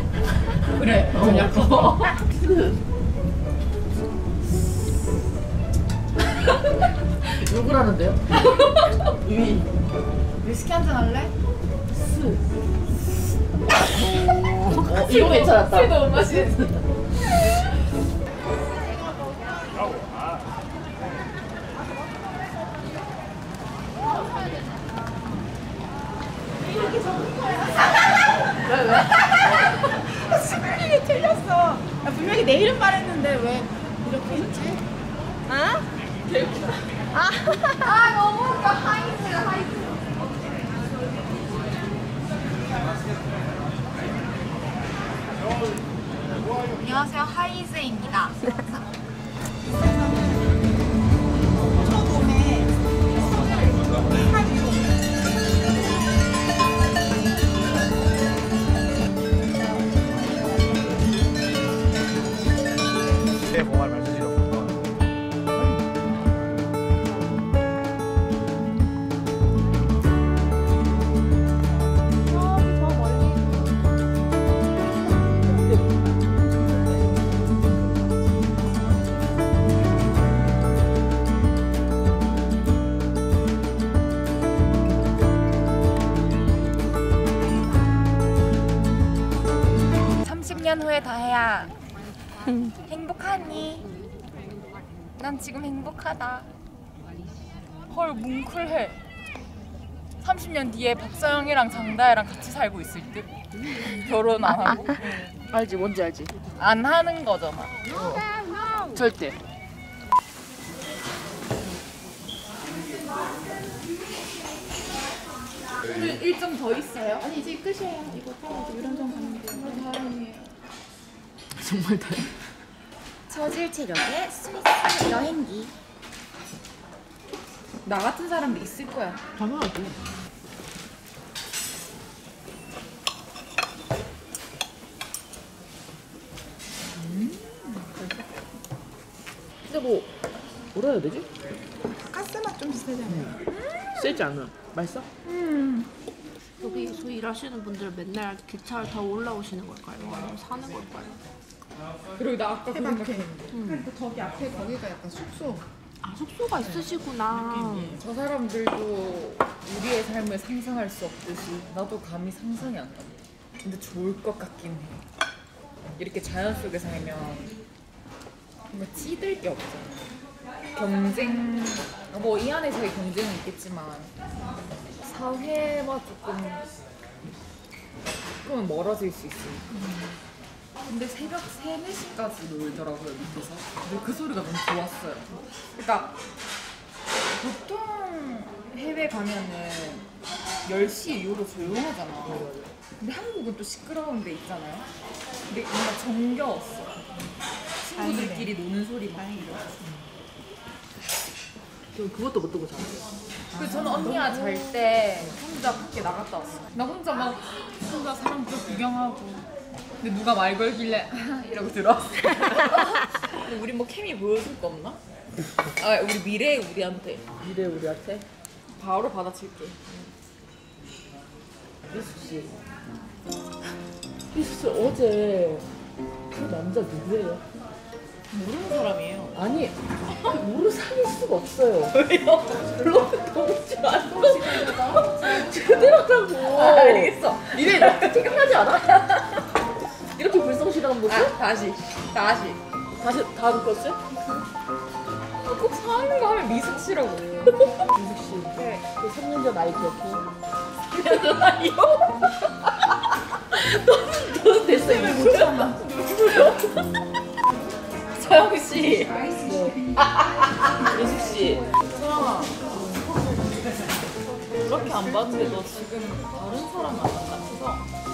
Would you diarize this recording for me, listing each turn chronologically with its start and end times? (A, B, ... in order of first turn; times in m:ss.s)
0:00.7-0:02.2 A
0:00.9-0:02.8 B
0:07.3-0:09.7 B
0:10.4-0:11.3 A
0:11.9-0:12.4 B
0:14.0-0:16.7 B
0:14.7-0:16.8 A
0:26.7-0:28.1 C
0:28.7-0:34.8 C
0:35.5-0:35.8 A
0:37.1-0:40.0 A
0:46.8-0:48.8 A
0:49.6-0:50.6 C
0:51.7-0:52.7 C
0:53.9-0:54.9 C
1:30.2-1:31.7 A
1:32.9-1:33.8 A
1:35.2-1:36.5 A
1:37.9-1:39.0 A
1:40.2-1:45.2 A
1:45.5-1:46.3 B
1:46.5-1:47.8 A
1:48.9-1:49.4 B
1:55.8-1:57.3 A
1:57.2-1:59.8 C
1:59.0-2:00.6 A
2:01.5-2:02.3 B
2:03.3-2:05.7 A
2:07.8-2:09.2 A
2:09.3-2:10.0 B
2:16.9-2:18.0 A
2:19.7-2:20.1 B
2:20.7-2:21.3 B
2:22.1-2:23.4 C
2:23.1-2:23.4 B
2:23.5-2:23.9 A
2:23.9-2:25.1 B
2:25.2-2:25.9 A
2:26.6-2:31.2 D
2:32.2-2:33.6 A
2:32.7-2:35.6 C
2:33.5-2:33.8 D
2:36.0-2:38.0 D
2:37.7-2:45.0 A
2:46.0-2:47.5 A
2:48.7-2:50.0 A
2:50.7-2:54.1 A
2:55.0-2:56.7 A
2:58.4-2:59.8 A
3:00.9-3:06.2 A
3:07.3-3:10.1 A
3:10.6-3:12.4 A
3:12.2-3:12.7 B
3:13.0-3:14.9 A
3:15.5-3:16.9 A
3:17.8-3:19.7 A
3:18.0-3:18.5 C
3:21.9-3:23.0 B
3:23.5-3:29.5 A
3:23.6-3:24.3 B
3:30.0-3:35.0 A
3:35.8-3:37.2 A
3:37.4-3:38.2 B
3:38.8-3:39.8 A
3:41.9-3:42.5 B
3:44.3-3:45.6 B
3:46.3-3:47.4 B
3:48.3-3:49.3 A
3:49.3-3:52.0 B
3:51.9-3:52.7 A
3:52.6-3:59.2 B
3:54.2-3:55.5 A
3:56.4-3:59.3 A
4:00.1-4:01.3 B
4:01.0-4:02.6 A
4:02.9-4:04.0 B
4:05.4-4:07.6 A
4:07.7-4:10.3 B
4:08.5-4:08.9 A
4:10.9-4:12.3 A
4:13.5-4:16.7 B
4:14.8-4:15.6 A
4:15.3-4:15.8 C
4:16.2-4:16.6 A
4:18.2-4:19.2 A
4:19.4-4:21.7 B
4:21.8-4:22.5 A
4:24.6-4:27.8 A